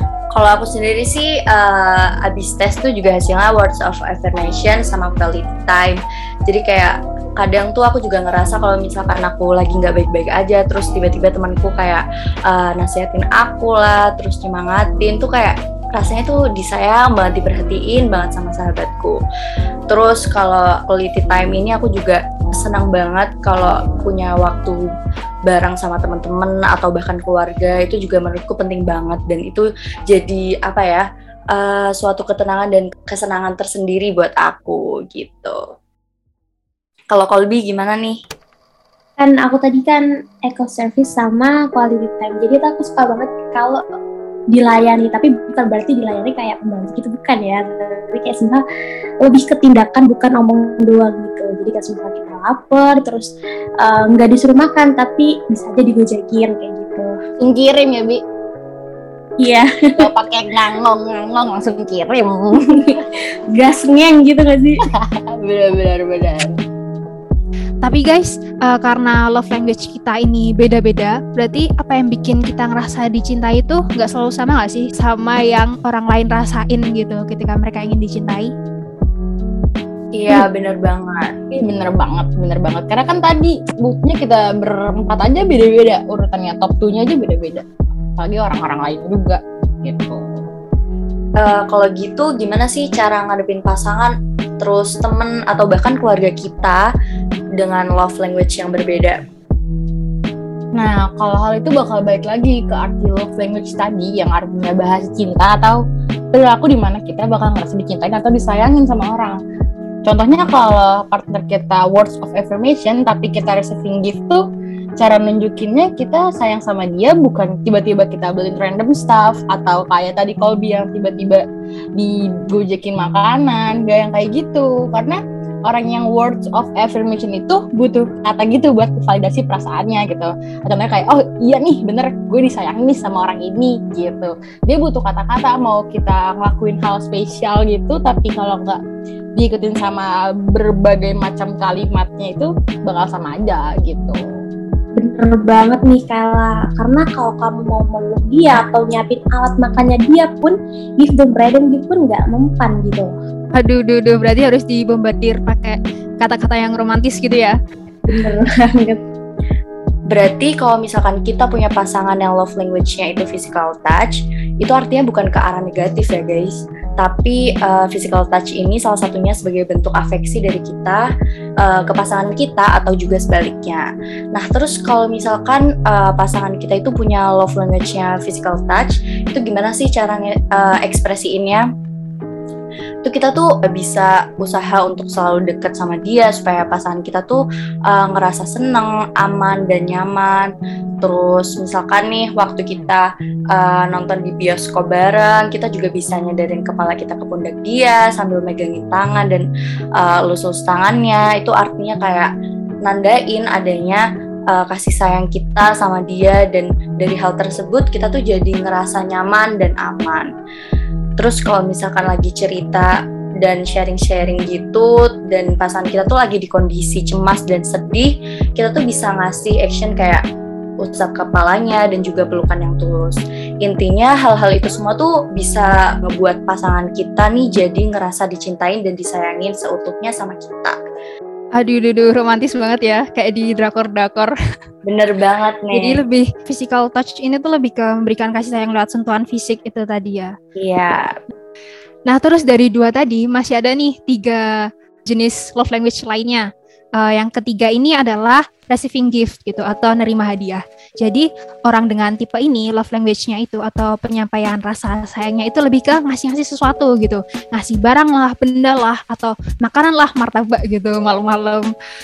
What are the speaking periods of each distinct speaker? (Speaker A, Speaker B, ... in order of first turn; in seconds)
Speaker A: 0.3-19.2, 19.9-24.8, 25.5-35.6, 37.1-38.2, 80.1-81.5, 91.4-96.8, 97.6-99.2, 160.1-171.0, 171.6-181.7, 183.1-202.3, 202.8-210.3, 211.2-220.2, 220.8-230.8, 234.9-236.0, 240.6-241.2
Speaker B: 39.2-43.8, 44.5-48.6, 49.2-57.2, 59.4-60.0, 62.7-64.8, 145.0-153.1, 158.1-159.0
Speaker C: 57.4-58.2, 60.0-63.0, 64.9-66.6, 81.6-87.7, 88.2-90.3, 100.8-109.4, 110.0-114.4, 115.0-121.4, 122.0-138.8, 139.4-144.2
Speaker D: 67.8-78.5, 153.6-157.6, 231.6-234.3, 235.7-240.3, 242.1-261.7